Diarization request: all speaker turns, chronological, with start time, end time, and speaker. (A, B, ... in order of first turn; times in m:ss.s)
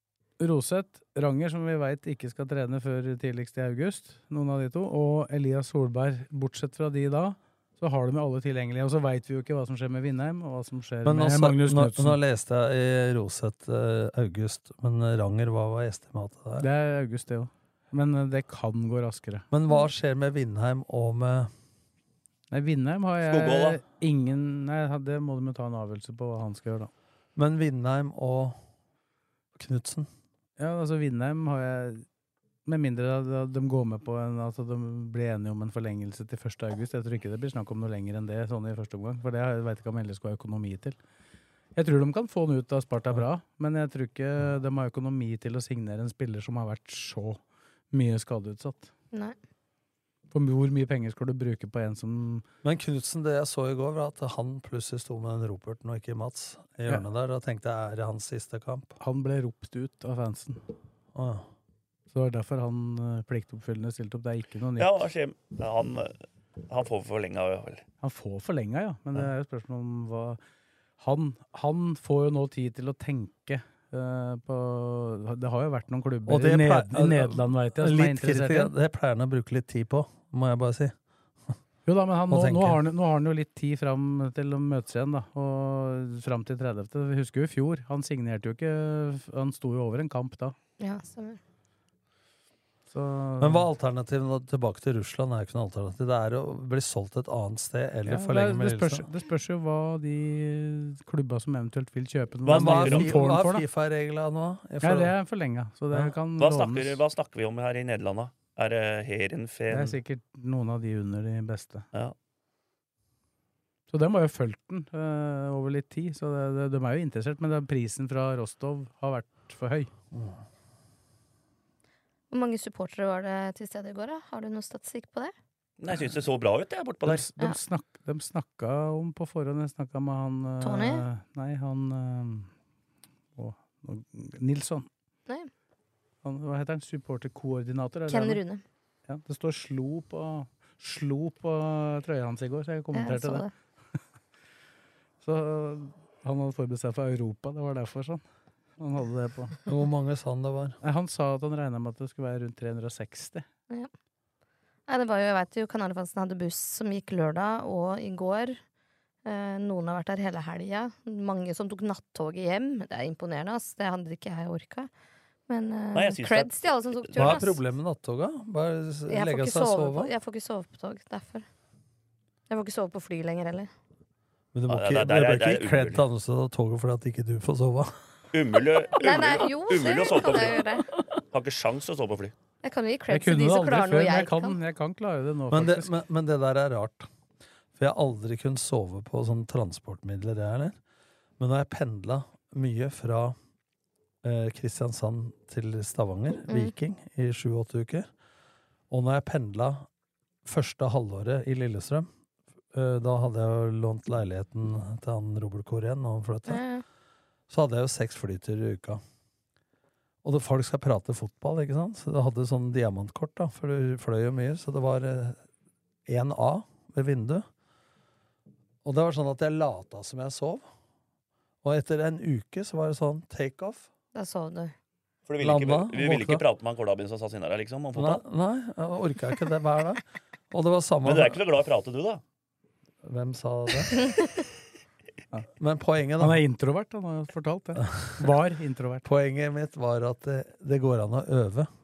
0:00.4-0:12.2 A
0:11.0-0:16.7 B
0:16.6-0:19.5 A
0:19.5-0:21.5 B
0:22.5-0:26.9 A
0:23.2-0:23.8 C
0:27.4-0:28.6 B
0:29.6-0:30.1 B
0:30.6-0:32.0 A
0:32.7-0:41.0 A
0:41.8-0:47.4 A
0:47.9-0:48.9 A
0:50.3-0:52.4 A
0:52.6-0:59.0 B
0:59.0-1:00.6 A
1:01.2-1:01.5 B
1:02.1-1:05.1 A
1:04.8-1:06.2 C
1:06.7-1:07.8 C
1:08.0-1:10.4 A
1:11.0-1:18.7 A
1:16.3-1:20.9 B
1:21.9-1:30.6 A
1:22.3-1:22.8 B
1:30.8-1:31.4 D
1:32.9-1:33.7 A
1:33.4-1:39.1 B
1:38.1-1:43.6 A
1:42.5-1:43.2 C
1:42.5-1:45.2 B
1:44.8-1:47.0 A
1:46.4-1:50.0 C
1:49.7-1:51.9 A
1:53.9-1:59.9 A
2:00.1-2:00.4 B
2:02.3-2:05.3 D
2:05.8-2:07.3 C
2:07.0-2:12.5 A
2:10.6-2:11.0 D
2:13.4-2:14.9 A
2:16.2-2:18.4 A
2:18.1-2:18.6 D
2:19.1-2:23.4 A
2:22.9-2:23.5 D
2:25.2-2:28.2 A
2:28.8-2:29.6 A
2:29.7-2:30.8 B
2:30.8-2:33.4 A
2:34.9-2:38.6 D
2:39.2-2:44.9 D
2:45.5-2:47.6 D
2:45.9-2:46.5 C
2:47.0-2:47.4 C
2:47.2-2:50.1 B
2:49.1-2:51.4 D
2:52.5-2:53.7 D
2:54.5-2:57.9 B
2:54.7-2:56.0 C
2:58.3-3:00.6 C
2:59.0-3:00.9 D
3:01.3-3:02.4 C
3:02.6-3:04.6 D
3:03.1-3:05.9 A
3:05.5-3:07.1 B
3:07.8-3:10.8 B
3:11.4-3:13.4 B
3:14.2-3:18.1 B
3:16.5-3:16.7 D
3:18.9-3:19.9 B
3:20.4-3:22.1 B
3:22.7-3:26.6 B
3:26.5-3:26.8 D
3:27.5-3:29.0 B
3:30.2-3:35.4 B
3:36.1-3:37.5 B
3:38.8-3:40.7 B
3:41.6-3:43.9 B
3:44.1-3:44.7 D
3:45.3-3:48.2 C
3:45.4-3:46.4 B
3:47.9-3:51.4 B
3:51.0-3:52.2 C
3:53.0-3:54.1 B
3:54.0-3:54.3 D
3:55.6-3:56.4 B
3:56.2-3:59.0 A
3:57.8-3:58.2 B
3:59.0-4:01.7 B